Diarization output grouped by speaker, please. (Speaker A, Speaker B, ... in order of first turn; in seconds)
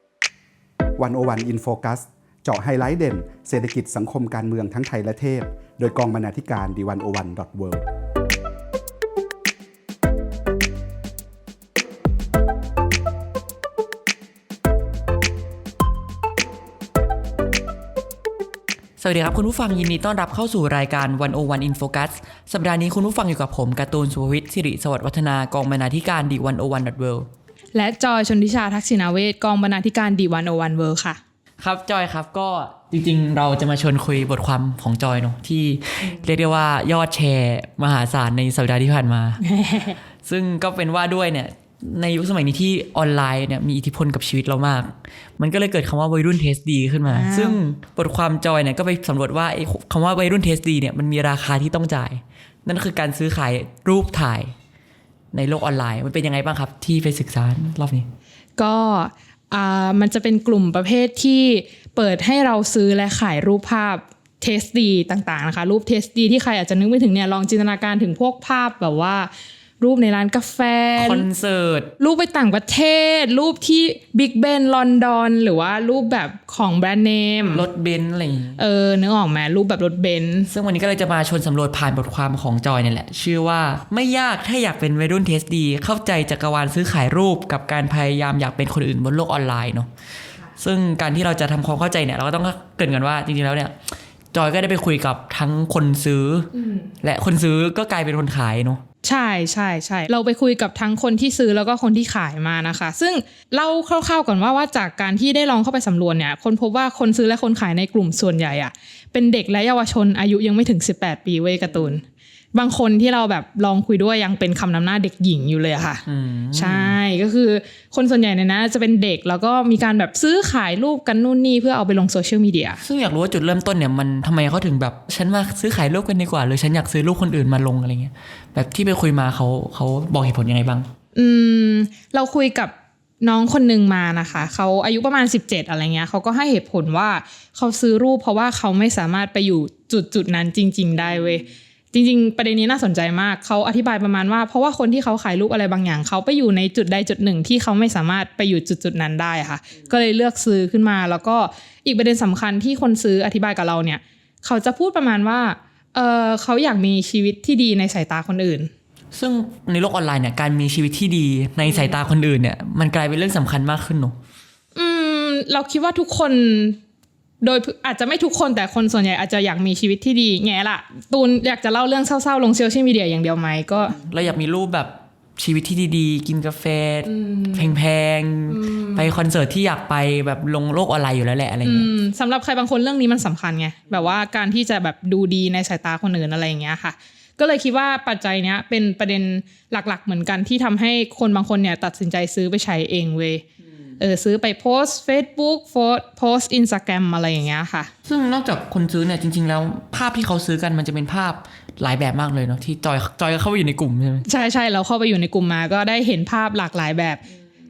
Speaker A: 1.0-7.8
Speaker B: 19.0-27.3, 31.6-39.4, 40.2-54.5, 55.3-58.1, 71.0-71.9, 77.5-78.6, 80.5-89.9, 90.6-93.7, 94.3-98.8, 116.0-117.0, 122.8-130.9, 159.1-164.2, 173.9-181.9, 198.1-204.2
Speaker C: 27.7-31.2, 39.4-40.0, 47.1-47.6, 58.6-71.3, 72.0-77.7, 78.5-80.5, 96.5-96.9, 99.0-112.0, 112.5-122.8, 131.1-158.7, 164.7-166.8, 167.4-174.0, 177.1-177.7, 178.5-179.1, 181.6-193.4, 194.0-197.9, 204.2-207.2